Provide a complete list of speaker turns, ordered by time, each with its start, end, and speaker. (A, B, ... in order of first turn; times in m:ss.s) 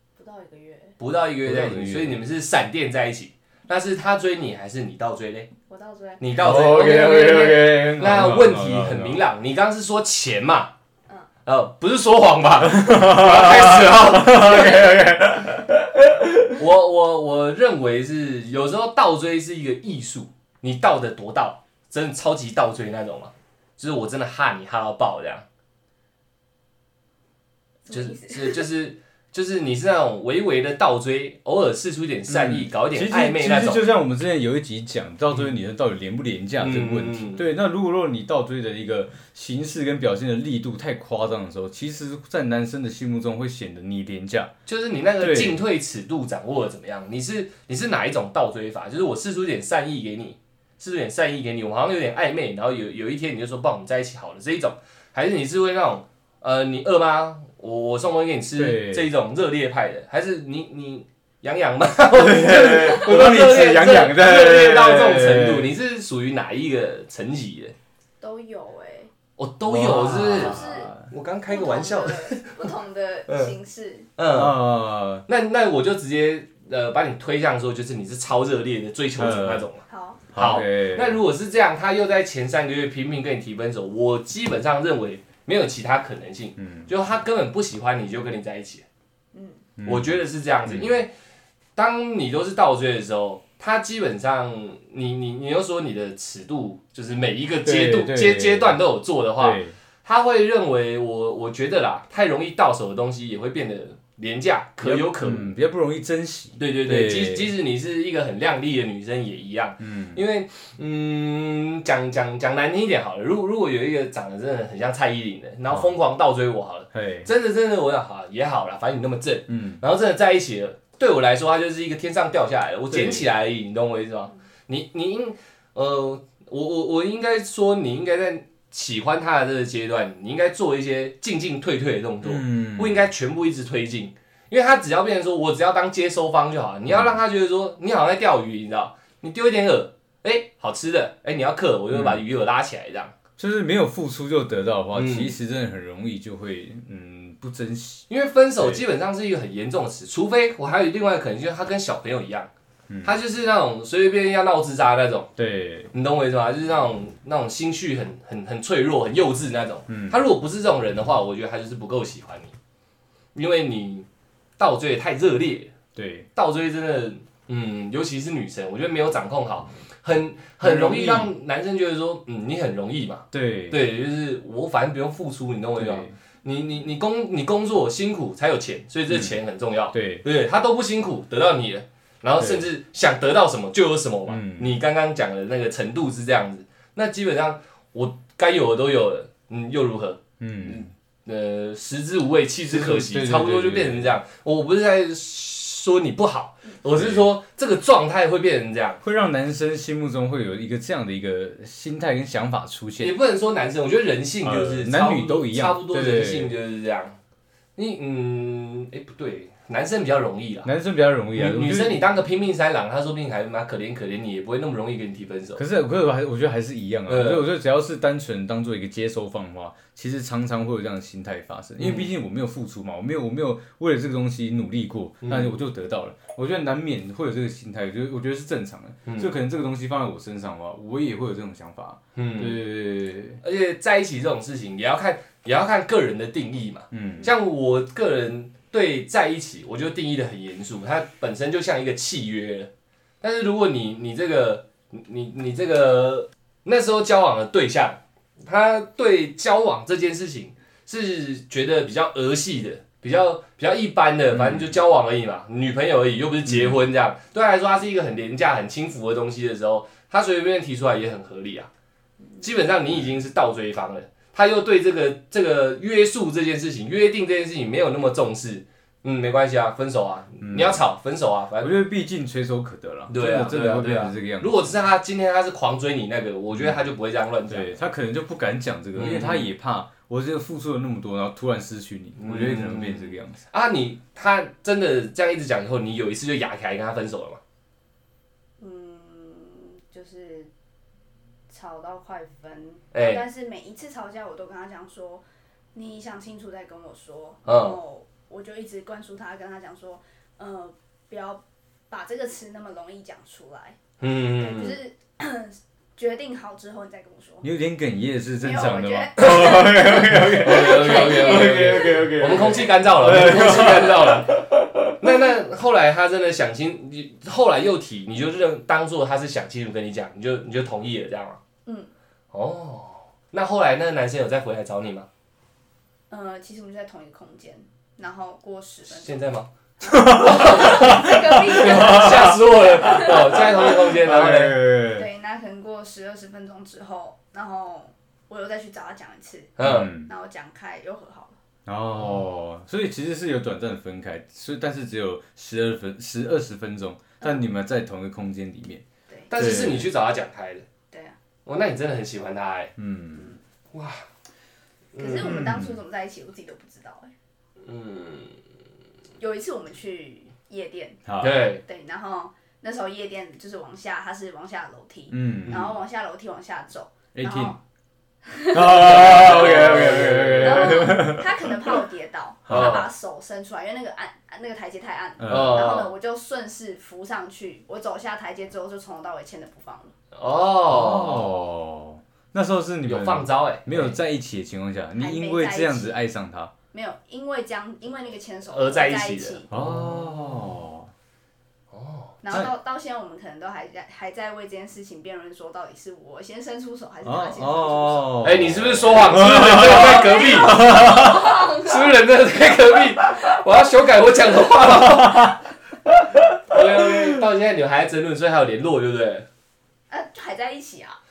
0:00.2-0:01.0 A
0:01.0-0:05.5 B
0:01.4-0:02.2 C
0:05.7-0:06.3 A
0:06.2-0:10.7 B
0:06.4-0:09.2 C
0:11.4-0:15.0 B
0:12.6-0:16.6 C
0:16.6-0:25.5 B
0:27.9-0:28.7 A
0:27.9-0:33.8 B
0:32.3-0:44.5 C
0:36.6-0:37.4 B
0:44.7-1:07.8 B
0:45.2-0:45.6 C
0:58.6-0:59.1 C
1:02.1-1:05.7 C
1:08.2-1:09.1 A
1:09.4-1:12.6 B
1:09.7-1:11.1 C
1:10.1-1:10.9 A
1:11.5-1:14.1 A
1:13.3-1:13.5 B
1:14.2-1:14.6 B
1:14.3-1:15.2 C
1:15.3-1:19.8 B
1:19.2-1:19.7 C
1:19.9-1:20.3 A
1:20.3-1:21.2 C
1:20.4-1:28.8 B
1:26.6-1:26.9 C
1:29.3-1:29.6 A
1:29.8-1:30.9 C
1:29.8-1:31.1 B
1:31.8-1:45.5 B
1:37.6-1:38.8 C
1:39.4-1:39.8 C
1:44.8-1:47.5 C
1:46.6-2:23.1 B
1:49.8-1:50.2 C
1:56.9-1:57.3 C
1:59.5-1:59.8 C
2:02.9-2:03.2 C
2:12.2-2:13.1 C
2:16.9-2:17.2 C
2:21.9-2:22.2 C
2:23.4-2:28.8 C
2:24.9-2:25.3 B
2:28.1-2:32.5 B
2:32.9-2:33.2 C
2:33.0-2:35.3 B
2:35.4-2:35.9 C
2:35.9-2:42.5 B
2:39.9-2:40.2 C
2:43.4-2:44.1 B
2:44.6-2:45.7 B
2:46.0-2:46.3 C
2:46.4-3:19.0 B
2:50.6-2:51.3 C
2:53.3-2:53.8 C
2:55.8-2:56.1 C
2:59.9-3:00.2 C
3:02.4-3:02.6 C
3:04.3-3:04.8 C
3:10.4-3:10.9 C
3:12.7-3:14.1 C
3:16.9-3:17.3 C
3:19.0-3:23.1 C
3:23.0-3:27.2 B
3:24.4-3:26.5 C
3:27.8-3:30.7 B
3:30.6-3:32.0 C
3:31.4-3:35.6 B
3:35.6-3:53.4 C
3:37.1-3:37.4 B
3:41.8-3:42.1 B
3:45.2-3:45.6 B
3:49.1-3:49.3 B
3:52.2-3:52.6 B
3:53.4-4:02.7 B
3:56.9-3:57.3 C
4:03.2-4:21.7 B
4:14.3-4:14.8 C
4:16.5-4:16.8 C
4:22.4-4:31.8 B
4:30.4-4:30.8 C
4:31.6-4:34.8 C
4:33.1-4:37.8 B
4:36.5-4:36.8 C
4:37.5-4:43.4 C
4:39.0-4:39.5 B
4:42.2-4:47.4 B
4:48.6-4:50.5 A
4:51.5-5:03.8 A
4:52.9-4:53.2 B
4:57.4-4:57.8 B
5:04.0-5:04.8 B
5:04.4-5:07.5 A
5:07.4-5:15.2 C
5:08.4-5:12.7 A
5:09.2-5:09.7 B
5:10.4-5:14.4 B
5:15.0-5:21.4 B
5:21.7-5:21.9 A
5:22.3-5:25.1 B
5:26.1-5:29.3 A
5:28.9-5:29.5 B
5:29.8-5:33.8 A
5:29.8-5:35.1 C
5:30.1-5:34.6 B
5:34.9-5:41.4 A
5:39.6-5:39.9 B
5:39.6-5:40.1 C
5:41.7-5:48.8 C
5:49.1-5:49.6 A
5:49.3-5:50.6 B
5:49.4-5:49.9 C
5:50.9-5:51.2 A
5:51.5-5:52.7 B
5:52.8-5:53.3 C
5:53.1-5:53.4 A
5:53.7-5:54.0 B
5:54.9-5:55.5 B
5:55.0-5:57.1 A
5:55.2-5:55.8 C
5:57.6-5:58.4 B
5:59.2-6:01.0 A
6:01.1-6:01.4 C
6:01.2-6:01.6 B
6:01.6-6:07.6 A
6:05.1-6:05.8 C
6:05.5-6:05.8 B
6:07.1-6:07.6 C
6:08.2-6:19.9 A
6:08.5-6:11.5 C
6:08.8-6:10.9 B
6:12.5-6:12.8 C
6:12.5-6:12.9 B
6:15.2-6:15.9 C
6:15.3-6:15.9 B
6:20.1-6:21.3 B
6:20.7-6:26.5 C
6:22.9-6:24.0 B
6:25.0-6:26.0 A
6:26.7-6:29.6 A
6:28.5-6:30.0 B
6:29.5-6:30.9 C
6:31.7-6:32.2 B
6:32.2-6:38.2 A
6:37.0-6:41.3 C
6:38.2-6:45.4 B
6:39.4-6:41.8 A
6:44.8-6:45.4 C
6:45.9-6:47.2 C
6:46.5-6:49.3 B
6:49.9-6:51.0 A